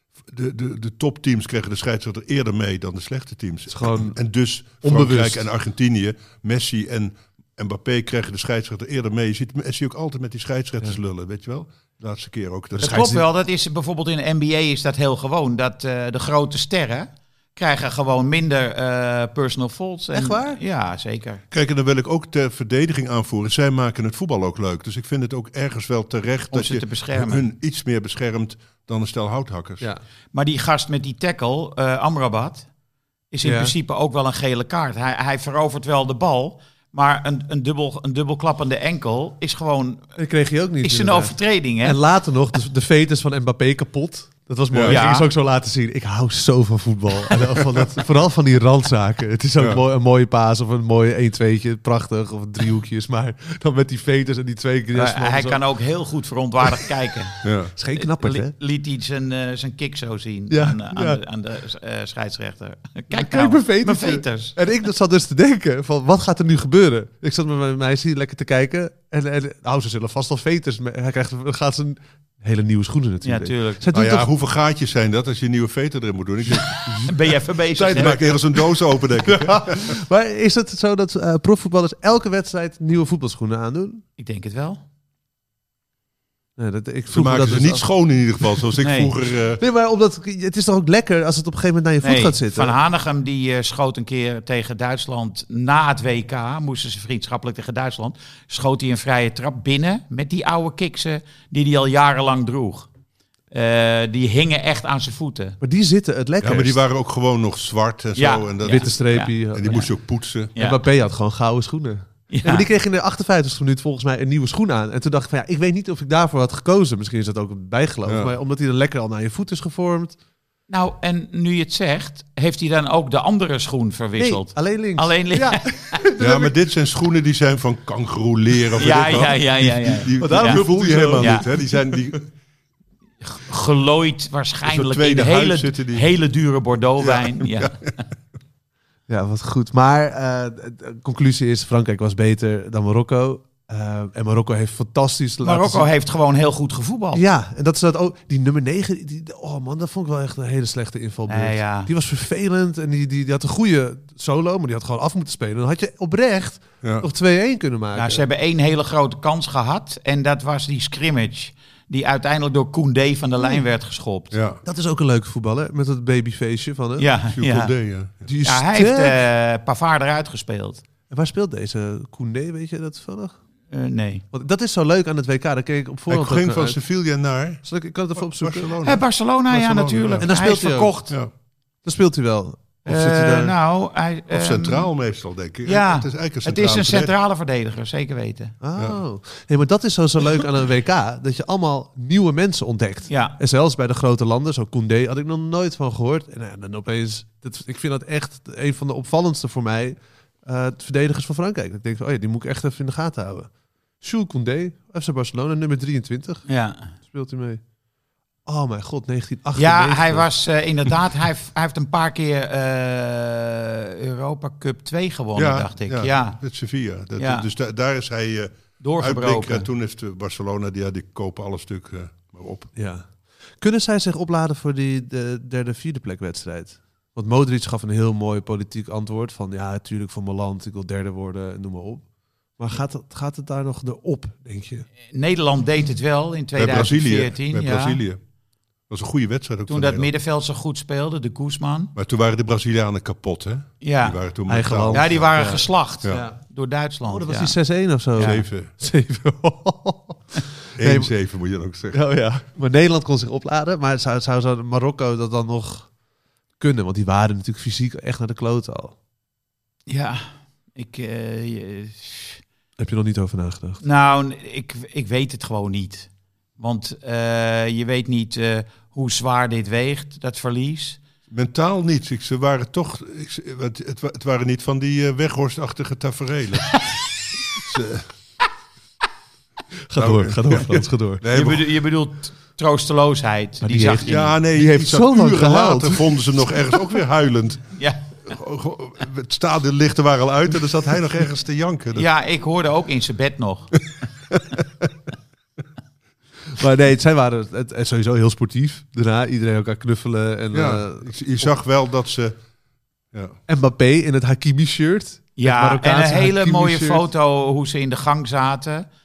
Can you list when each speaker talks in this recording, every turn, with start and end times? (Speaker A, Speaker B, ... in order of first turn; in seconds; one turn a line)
Speaker A: 0.2-13.0
Speaker B: 3.7-4.2
Speaker B: 4.8-5.5
Speaker B: 12.8-13.2
Speaker C: 12.8-21.4
Speaker B: 20.1-20.6
Speaker A: 21.5-29.9
Speaker C: 26.5-27.4
Speaker C: 30.3-32.7
Speaker C: 33.3-40.1
Speaker B: 33.4-33.7
Speaker B: 40.2-55.6
Speaker C: 40.8-42.0
Speaker A: 44.7-45.0
Speaker C: 44.9-45.3
Speaker A: 49.6-49.8
Speaker C: 54.9-57.4
Speaker A: 57.4-57.7
Speaker B: 57.7-58.5
Speaker C: 57.9-64.6
Speaker B: 60.5-61.2
Speaker B: 63.1-74.3
Speaker C: 73.2-73.8
Speaker A: 73.9-77.1
Speaker B: 76.5-77.1
Speaker C: 77.1-78.2
Speaker B: 77.7-84.0
Speaker A: 77.9-80.0
Speaker C: 84.2-84.8
Speaker B: 86.6-87.9
Speaker A: 87.1-89.6
Speaker C: 88.8-89.1
Speaker B: 89.6-92.8
Speaker C: 92.0-102.9
Speaker C: 103.5-105.6
Speaker B: 105.6-106.8
Speaker A: 106.4-110.5
Speaker C: 108.2-109.9
Speaker B: 108.6-109.9
Speaker C: 110.5-110.8
Speaker B: 110.6-120.2
Speaker C: 112.3-112.7
Speaker A: 118.1-118.3
Speaker C: 120.7-126.0
Speaker B: 124.2-126.5
Speaker A: 126.2-132.3
Speaker B: 128.8-129.3
Speaker C: 128.8-130.6
Speaker B: 130.2-132.0
Speaker C: 131.2-131.5
Speaker C: 133.2-137.7
Speaker A: 134.6-136.1
Speaker A: 137.0-137.9
Speaker B: 139.1-145.9
Speaker C: 145.4-147.2
Speaker B: 147.1-158.2
Speaker C: 151.3-151.9
Speaker A: 156.8-157.1
Speaker C: 157.9-164.3
Speaker A: 164.3-164.6
Speaker B: 164.6-167.1
Speaker C: 167.0-167.7
Speaker A: 167.3-168.3
Speaker B: 168.2-169.2
Speaker C: 168.4-170.8
Speaker B: 171.1-173.4
Speaker C: 173.7-174.2
Speaker B: 174.3-176.8
Speaker A: 176.1-180.3
Speaker B: 177.6-178.8
Speaker C: 178.8-181.1
Speaker B: 180.2-180.9
Speaker B: 181.8-183.5
Speaker C: 182.8-184.9
Speaker A: 184.3-187.1
Speaker C: 185.7-188.6
Speaker B: 188.6-207.6
Speaker A: 188.8-189.0
Speaker C: 193.1-193.4
Speaker C: 206.5-206.9
Speaker B: 208.4-210.3
Speaker C: 209.6-216.4
Speaker A: 215.4-222.7
Speaker C: 217.2-217.4
Speaker C: 218.8-219.7
Speaker B: 222.8-232.1
Speaker B: 232.6-234.9
Speaker C: 235.1-238.0
Speaker A: 236.6-238.2
Speaker A: 238.9-240.1
Speaker C: 239.7-241.9
Speaker A: 241.9-245.3
Speaker C: 243.8-244.2
Speaker B: 244.5-246.4
Speaker C: 244.9-247.6
Speaker B: 247.1-251.1
Speaker C: 248.1-248.4
Speaker A: 248.2-248.7
Speaker A: 250.7-252.0
Speaker B: 251.9-255.9
Speaker B: 256.6-258.9
Speaker C: 259.9-262.4
Speaker B: 262.8-263.8
Speaker C: 263.8-271.0
Speaker A: 271.3-276.8
Speaker A: 277.6-278.1
Speaker B: 279.9-281.2
Speaker A: 279.9-281.7
Speaker C: 281.3-284.2
Speaker B: 283.6-287.0
Speaker A: 284.1-287.7
Speaker C: 287.8-288.1
Speaker A: 288.2-292.1
Speaker C: 291.9-293.8
Speaker B: 296.5-301.5
Speaker A: 300.5-302.4
Speaker B: 303.5-307.1
Speaker C: 305.4-308.9